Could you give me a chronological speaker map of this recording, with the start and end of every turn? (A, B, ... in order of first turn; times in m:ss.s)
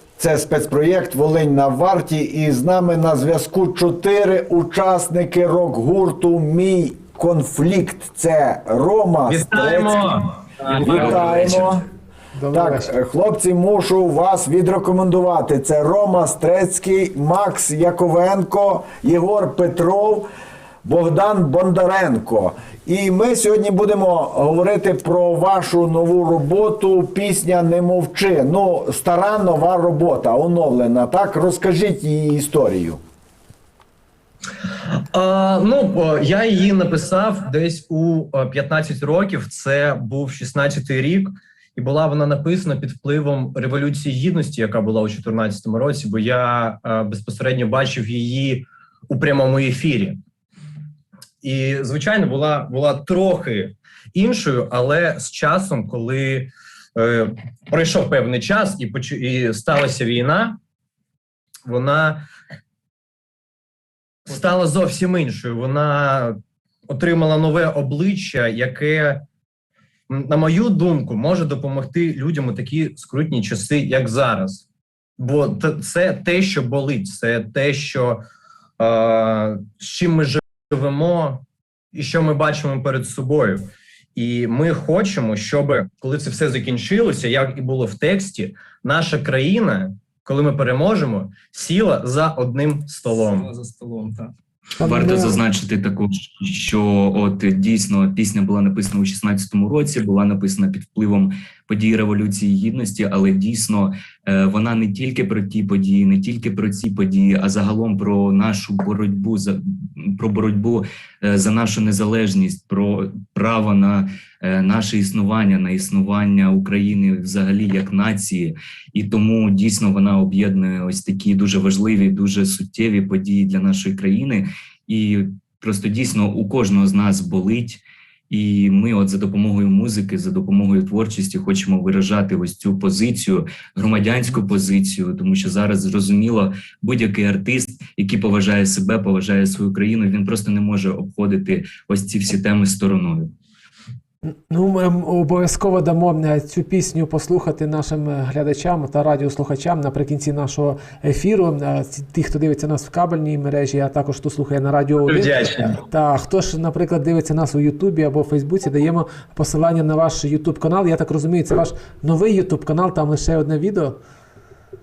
0:00.2-0:10.1 A
0:09.2-0:10.2 B
0:10.6-0:11.4 C
0:10.7-0:11.8 A
0:10.8-0:11.1 B
0:10.8-0:11.8 D
0:12.3-0:12.9 E
0:12.5-0:20.3 A
0:20.8-0:33.0 A
0:35.1-0:50.2 B
0:51.4-1:00.6 B
1:01.6-1:02.2 B
1:04.2-1:09.2 B
1:10.1-1:14.6 B
1:15.2-1:18.2 B
1:18.8-1:33.5 B
1:33.1-1:34.3 C
1:34.8-1:35.4 E
1:34.8-2:23.3 D
2:24.5-2:44.0 E
2:35.0-2:35.8 B